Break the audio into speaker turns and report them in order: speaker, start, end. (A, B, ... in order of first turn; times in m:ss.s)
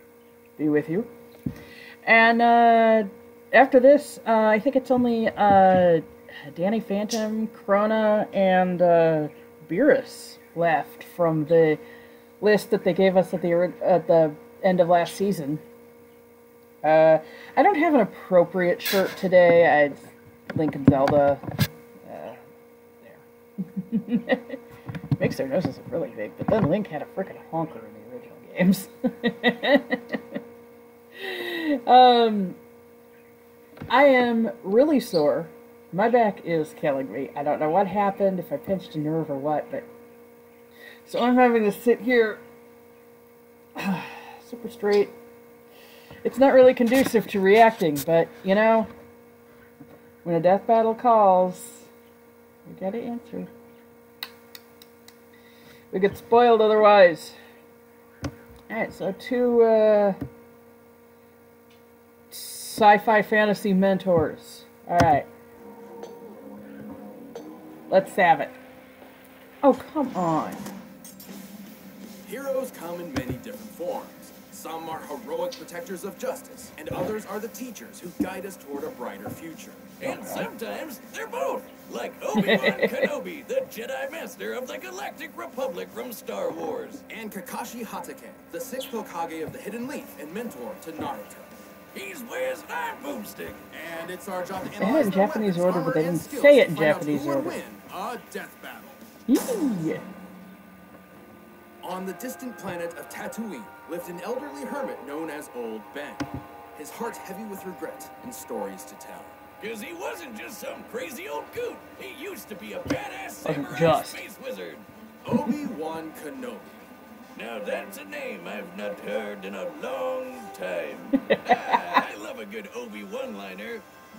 0:00.6-0:01.1 A
0:02.0-0:11.8 A
0:12.4-0:15.6 A
0:16.8-0:21.4 A
0:22.0-0:22.4 A
0:23.0-0:24.6 A
0:25.2-0:30.4 A
0:31.2-0:32.6 A
0:33.9-0:39.9 A
0:41.0-0:42.4 A
0:43.8-0:45.1 A
0:46.2-0:48.9 A
0:50.2-0:51.9 A
0:52.6-0:53.5 A
0:55.9-0:57.4 A
0:58.7-1:00.2 A
1:02.3-1:05.3 A
1:07.9-1:08.5 A
1:09.6-1:10.6 A
1:12.2-1:20.2 B
1:20.0-1:27.0 C
1:22.3-1:23.1 A
1:27.1-1:31.5 B
1:31.9-1:33.6 C
1:33.7-1:39.0 B
1:34.8-1:37.6 A
1:39.3-1:40.0 A
1:41.8-1:49.4 B
1:49.6-1:54.8 C
1:53.4-1:54.2 A
1:55.2-1:56.8 B
1:57.3-2:03.8 C
2:01.2-2:02.0 A